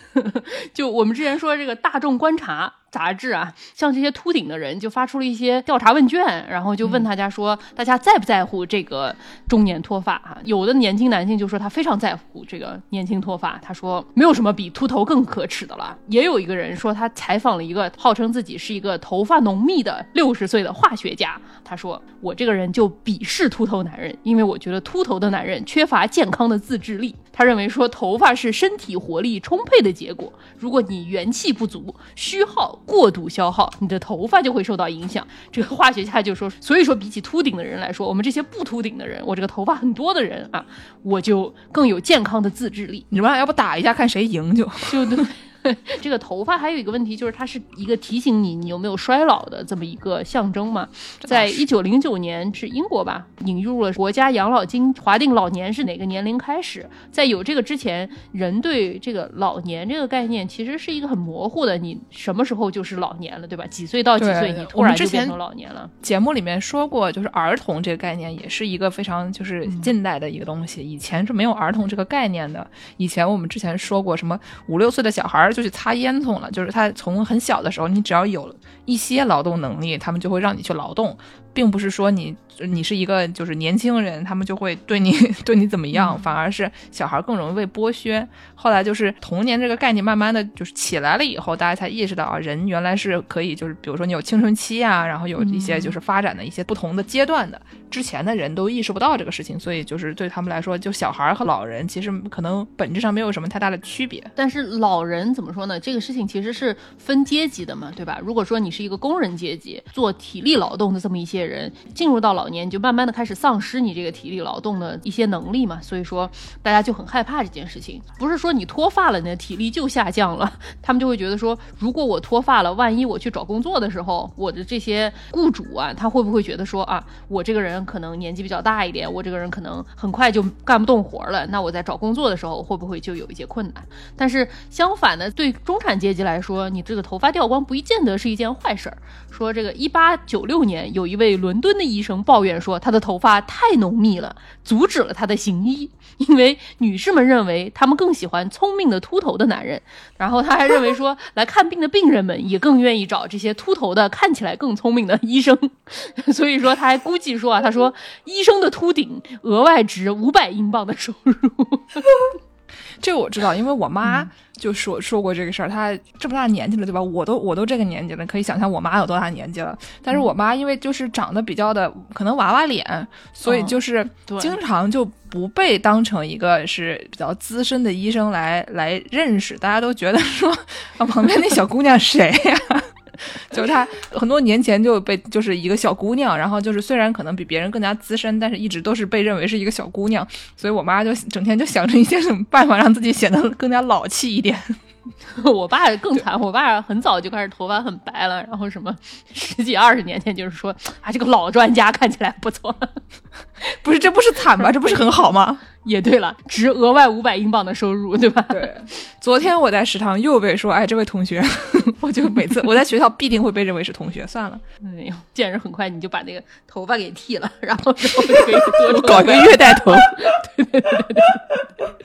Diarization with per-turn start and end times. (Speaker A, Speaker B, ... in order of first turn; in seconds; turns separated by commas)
Speaker A: 0.1-43.0, Speaker B: 43.1-45.2, Speaker A: 44.9-65.9, Speaker B: 51.2-51.6, Speaker B: 64.2-65.3, Speaker B: 66.0-104.3, Speaker A: 69.6-69.9, Speaker A: 85.9-86.2, Speaker A: 95.4-96.0, Speaker A: 104.4-162.1, Speaker B: 163.0-194.8, Speaker A: 164.0-164.3, Speaker A: 173.4-174.6, Speaker A: 195.3-203.0, Speaker B: 203.8-205.6, Speaker A: 204.6-205.1, Speaker A: 205.8-208.7, Speaker B: 208.5-214.6, Speaker A: 214.8-221.4, Speaker B: 218.8-220.1